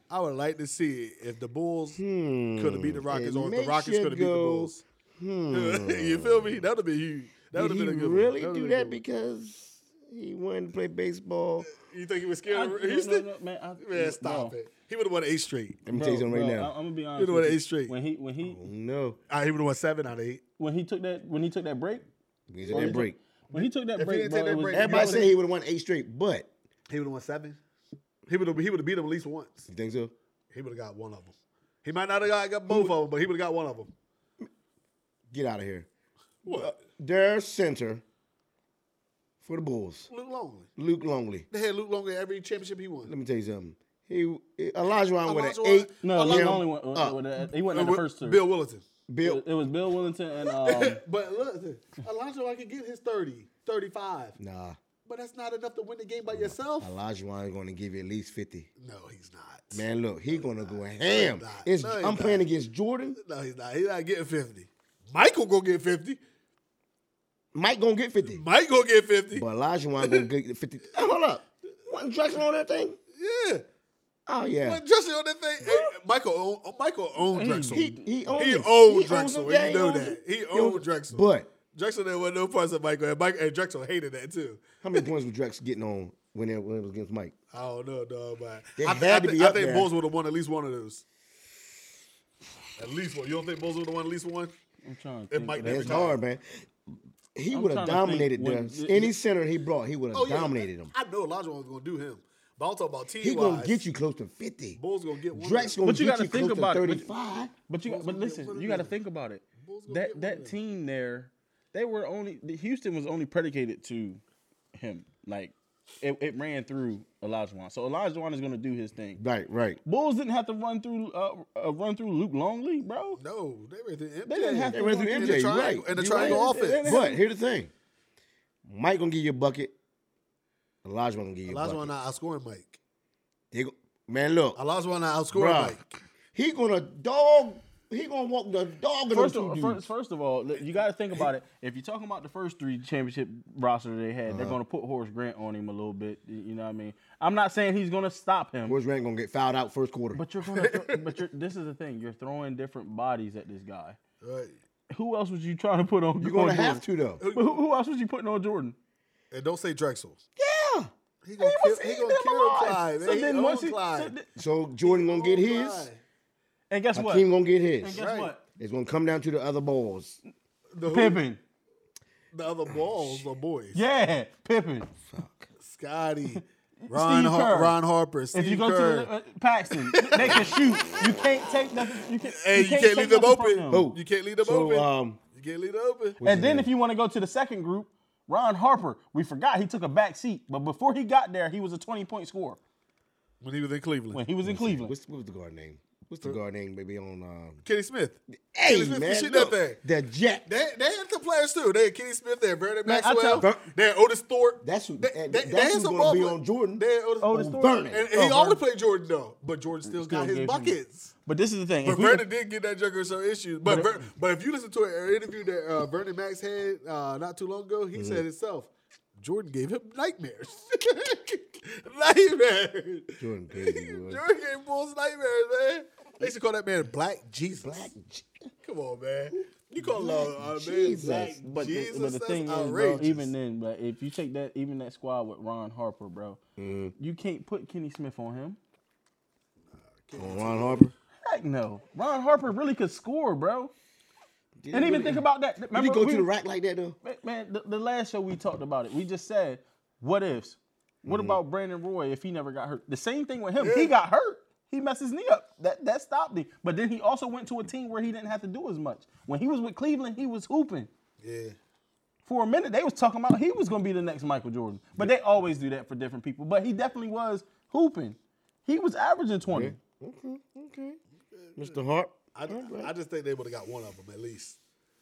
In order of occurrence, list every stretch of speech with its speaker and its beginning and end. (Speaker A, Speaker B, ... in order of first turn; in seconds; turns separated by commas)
Speaker A: 0.1-2.0, Speaker B: 2.0-6.6, Speaker A: 2.6-4.8, Speaker A: 5.5-9.0, Speaker B: 7.5-11.7, Speaker A: 11.6-13.3, Speaker C: 12.5-14.5, Speaker A: 13.8-15.8, Speaker B: 15.8-16.7, Speaker C: 15.9-18.6, Speaker A: 17.2-17.9, Speaker B: 18.4-19.2, Speaker A: 19.3-20.4, Speaker C: 20.6-22.1, Speaker B: 22.5-23.2, Speaker A: 22.6-25.3, Speaker C: 22.7-25.3, Speaker B: 24.7-26.5, Speaker A: 26.9-27.6, Speaker A: 28.3-29.7, Speaker B: 29.7-30.1, Speaker A: 30.5-33.9, Speaker B: 35.3-35.9, Speaker A: 36.4-36.8, Speaker B: 36.5-38.0, Speaker B: 39.4-40.1, Speaker A: 40.1-40.7, Speaker B: 40.8-41.5, Speaker A: 41.5-43.1, Speaker B: 43.1-47.2, Speaker A: 45.2-46.6, Speaker C: 46.0-48.4, Speaker A: 47.4-48.8, Speaker B: 49.1-49.4, Speaker C: 49.2-51.0, Speaker A: 50.5-54.4, Speaker B: 54.4-54.8, Speaker A: 55.1-56.9, Speaker B: 56.3-58.7, Speaker A: 58.8-62.5, Speaker B: 59.7-63.2, Speaker A: 63.2-66.2, Speaker B: 67.5-68.4, Speaker A: 68.3-69.5, Speaker B: 69.3-73.0, Speaker A: 70.0-70.3, Speaker A: 73.2-73.6, Speaker B: 74.3-74.8, Speaker A: 74.6-85.1, Speaker C: 77.3-78.1, Speaker B: 77.7-81.5, Speaker B: 84.8-87.3, Speaker A: 87.5-91.0, Speaker B: 88.8-89.9, Speaker A: 92.8-94.5, Speaker C: 94.8-96.1, Speaker A: 95.3-96.2, Speaker B: 95.6-96.6, Speaker B: 97.4-100.9, Speaker C: 97.5-99.1, Speaker A: 100.1-103.8, Speaker B: 103.2-104.8, Speaker A: 104.8-105.8, Speaker B: 105.3-107.5, Speaker C: 105.8-107.1, Speaker C: 107.7-114.2, Speaker A: 107.8-109.0, Speaker A: 109.6-110.6, Speaker C: 114.8-119.2, Speaker B: 119.2-119.8, Speaker C: 119.8-123.2, Speaker A: 123.2-127.0, Speaker C: 124.3-127.2, Speaker B: 124.7-127.7, Speaker B: 128.7-129.7, Speaker B: 130.8-131.9, Speaker A: 131.5-132.8, Speaker B: 133.5-134.6, Speaker A: 134.6-135.9, Speaker B: 135.3-135.8, Speaker B: 136.3-139.8, Speaker C: 139.1-148.8, Speaker B: 144.3-144.6, Speaker B: 148.7-150.2, Speaker C: 150.1-154.0, Speaker A: 150.4-151.2, Speaker A: 154.2-154.6, Speaker C: 154.9-156.8, Speaker B: 156.2-157.2, Speaker A: 157.2-157.6, Speaker C: 157.3-158.8, Speaker A: 159.3-160.2, Speaker B: 160.4-160.9, Speaker A: 161.2-164.1, Speaker C: 161.4-164.3, Speaker B: 164.4-165.9, Speaker A: 164.8-166.0, Speaker C: 166.7-167.3, Speaker B: 166.9-168.0, Speaker C: 167.8-168.4, Speaker A: 167.9-168.3, Speaker B: 168.6-170.2, Speaker A: 170.7-171.2, Speaker C: 170.9-171.4, Speaker A: 172.3-173.8, Speaker C: 173.8-174.9, Speaker B: 175.1-175.5, Speaker A: 175.6-179.1, Speaker C: 176.3-177.8, Speaker C: 178.3-183.9, Speaker A: 179.9-180.6, Speaker B: 180.3-181.2, Speaker A: 182.2-186.2, Speaker B: 183.7-185.2, Speaker B: 186.2-186.7, Speaker C: 186.2-192.6, Speaker A: 193.4-194.2, Speaker C: 194.1-194.9, Speaker B: 194.4-197.6, Speaker A: 197.7-199.8, Speaker B: 198.5-200.4, Speaker A: 200.5-211.1, Speaker C: 202.9-203.5, Speaker B: 203.4-203.7, Speaker B: 204.6-208.1, Speaker C: 207.2-208.6, Speaker C: 209.9-212.2, Speaker A: 211.8-227.9, Speaker C: 213.7-214.0, Speaker B: 217.9-218.2, Speaker B: 223.2-224.2, Speaker B: 227.6-228.4, Speaker A: 228.6-233.3, Speaker B: 229.8-231.4, Speaker C: 231.1-236.4, Speaker B: 236.6-236.9, Speaker C: 237.0-238.6, Speaker A: 239.9-240.9, Speaker B: 240.2-240.9, Speaker C: 241.2-243.7, Speaker B: 244.6-247.0, Speaker C: 244.7-246.3, Speaker C: 247.0-260.9, Speaker B: 251.1-251.4, Speaker A: 253.6-253.9, Speaker A: 261.2-261.6, Speaker C: 262.3-269.8, Speaker B: 269.5-271.0, Speaker A: 271.4-271.8, Speaker B: 271.6-272.9, Speaker A: 272.4-274.6